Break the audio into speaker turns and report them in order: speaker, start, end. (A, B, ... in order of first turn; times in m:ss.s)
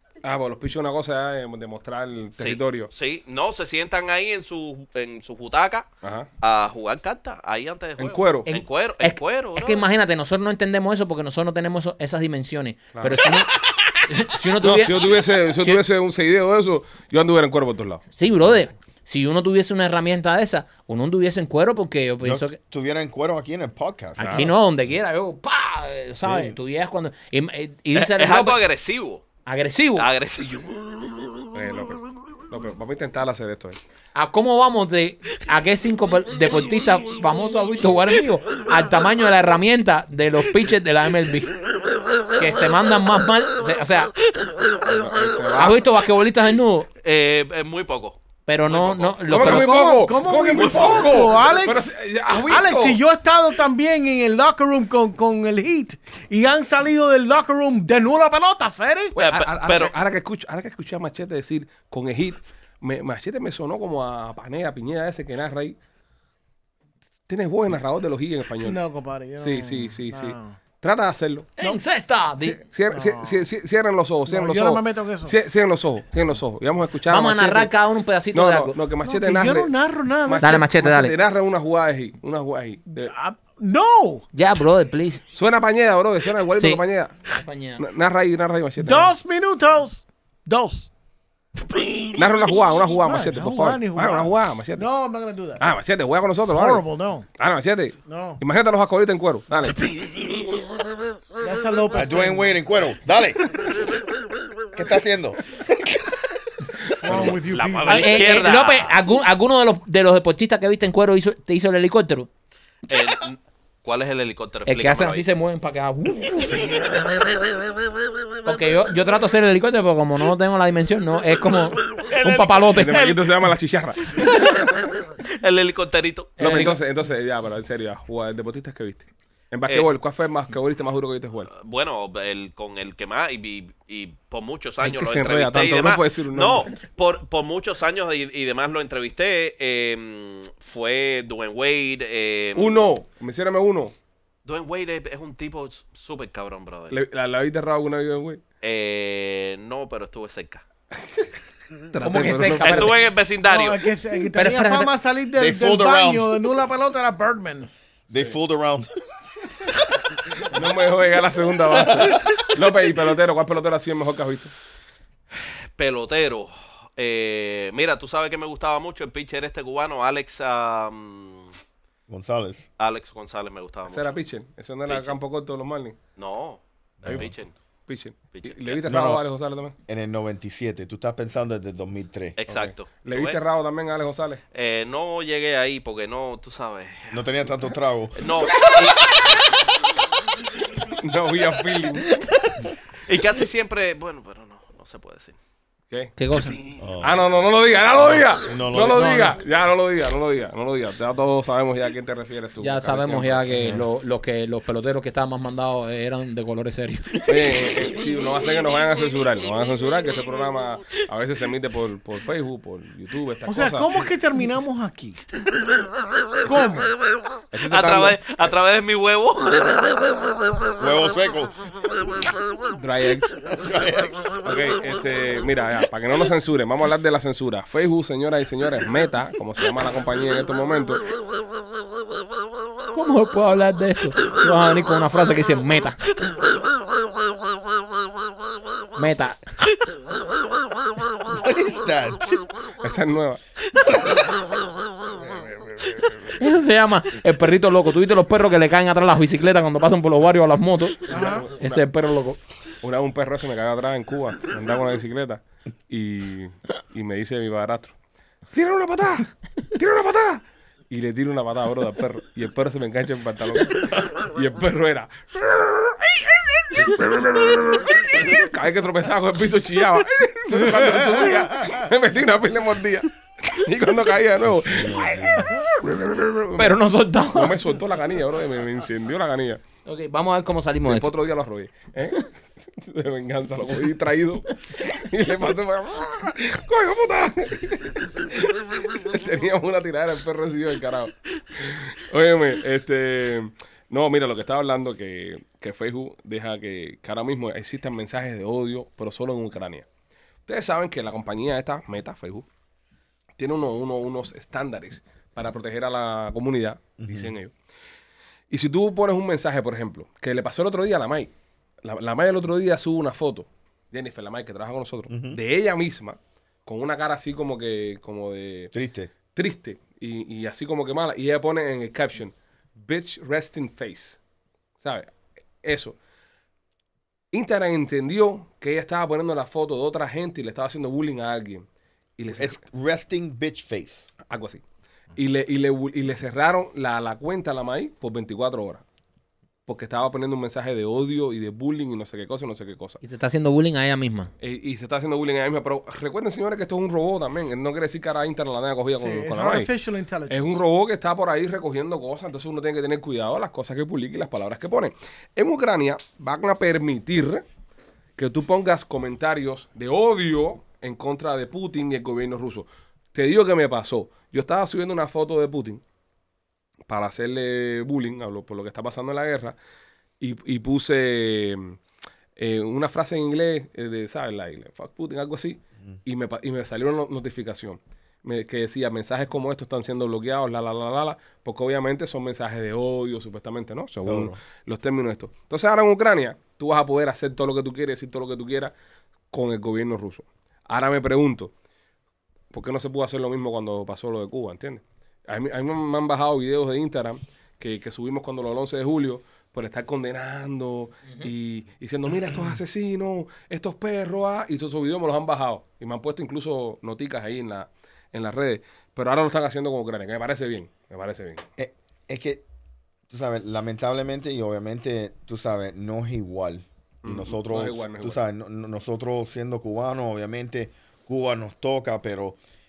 0:00.2-0:02.9 A
0:02.4-0:09.8 B
0:06.0-0:06.3 A
0:08.0-0:08.5 A
0:08.5-0:13.5 C
0:12.9-0:13.2 A
0:14.0-0:15.8 C
0:14.6-0:18.0 A
0:18.1-0:22.6 C
0:22.2-0:24.5 D
0:24.2-0:24.5 A
0:24.2-0:28.6 C
0:26.2-0:26.5 D
0:27.9-0:29.2 B
0:29.4-0:30.1 C
0:30.0-0:31.1 B
0:31.5-0:33.8 A
0:34.1-0:41.5 C
0:42.4-0:44.1 C
0:44.4-0:44.7 B
0:44.8-0:45.8 A
0:45.5-0:46.9 C
0:47.0-0:49.1 B
0:48.5-0:49.8 C
0:49.2-0:53.0 A
0:49.4-0:59.2 E
0:50.5-0:51.3 B
0:59.2-0:59.9 B
0:59.2-1:05.8 A
1:07.3-1:08.8 A
1:08.6-1:10.6 E
1:09.4-1:11.5 A
1:11.6-1:12.6 C
1:12.6-1:17.7 A
1:12.9-1:13.4 E
1:14.3-1:15.4 E
1:17.1-1:18.8 C
1:18.3-1:23.1 A
1:19.0-1:20.7 E
1:20.4-1:21.1 C
1:22.9-1:24.3 E
1:24.3-1:25.2 C
1:25.3-1:27.1 A
1:26.6-1:27.8 C
1:27.8-1:29.1 A
1:28.8-1:30.9 E
1:32.2-1:34.9 A
1:33.0-1:35.7 E
1:35.6-1:36.8 A
1:36.4-1:37.3 E
1:37.4-1:39.9 A
1:38.0-1:38.4 E
1:41.4-1:42.6 E
1:41.9-1:43.9 D
1:44.7-1:46.3 D
1:47.0-1:48.3 E
1:47.0-1:47.4 A
1:47.4-1:49.0 B
1:47.8-1:52.3 C
1:52.9-1:55.2 B
1:54.6-1:56.8 C
1:58.4-2:03.2 C
2:02.1-2:02.5 B
2:02.6-2:04.4 A
2:04.2-2:06.4 B
2:06.4-2:06.8 C
2:06.4-2:11.5 A
2:11.5-2:22.9 B
2:14.8-2:16.7 A
2:22.6-2:23.9 A
2:24.4-2:27.0 B
2:26.9-2:28.4 A
2:28.6-2:30.6 B
2:31.9-2:33.0 A
2:32.0-2:33.0 C
2:32.6-2:33.9 B
2:33.5-2:37.7 E
2:34.3-2:34.9 C
2:35.4-2:36.4 D
2:38.1-2:38.9 D
2:40.4-2:44.5 A
2:45.8-2:51.5 B
2:52.1-2:52.7 D
2:52.8-2:54.2 B
2:53.9-2:56.0 A
2:54.9-2:55.2 B
2:56.2-2:57.5 B
2:57.0-2:57.3 D
2:57.9-2:59.7 A
2:58.3-2:58.8 B
2:58.8-2:59.2 D
2:59.9-3:02.4 D
3:02.4-3:03.4 B
3:02.5-3:04.4 A
3:04.5-3:07.2 B
3:07.1-3:08.3 D
3:08.2-3:09.5 B
3:10.9-3:12.2 A
3:13.0-3:15.4 B
3:16.2-3:16.6 C
3:16.8-3:17.2 D
3:17.0-3:23.7 A
3:18.3-3:19.4 D
3:22.6-3:27.3 C
3:23.5-3:23.8 D
3:27.2-3:34.0 A
3:33.4-3:35.2 E
3:36.4-3:36.9 E
3:37.5-3:38.2 A
3:37.7-3:40.4 B
3:40.8-3:42.1 D
3:42.7-3:43.4 A
3:43.5-3:44.4 D
3:44.4-3:51.1 A
3:52.9-3:56.0 C
3:59.0-3:59.4 C
4:01.2-4:02.4 D
4:02.8-4:03.4 A
4:05.1-4:06.4 A
4:06.4-4:12.4 C
4:11.1-4:11.5 E
4:11.1-4:11.8 A
4:12.8-4:18.0 A
4:18.5-4:36.8 A
4:34.7-4:35.5 D
4:36.6-4:37.6 C
4:37.3-4:39.6 A
4:39.8-4:41.1 C
4:40.8-4:59.8 A
5:00.4-5:02.4 A
5:03.4-5:07.5 A
5:07.0-5:07.3 D
5:08.5-5:18.7 A
5:15.1-5:15.4 D
5:18.7-5:19.1 D
5:19.3-5:24.2 A
5:24.8-5:25.1 A
5:25.6-5:26.0 A
5:27.3-5:31.6 A
5:32.2-5:32.6 A
5:32.3-5:34.1 D
5:34.2-5:34.6 A
5:35.1-5:38.8 A
5:39.6-5:43.0 A
5:43.0-5:44.3 C
5:44.4-5:49.7 A
5:48.9-5:50.6 E
5:50.3-5:57.4 A
5:58.2-6:05.8 A
6:06.8-6:09.6 A
6:10.2-6:11.8 A
6:12.4-6:28.7 A
6:24.0-6:24.4 D
6:29.3-6:31.5 A
6:32.5-6:51.4 A
6:51.6-6:52.4 D
6:53.1-7:02.4 D
6:57.0-6:58.2 A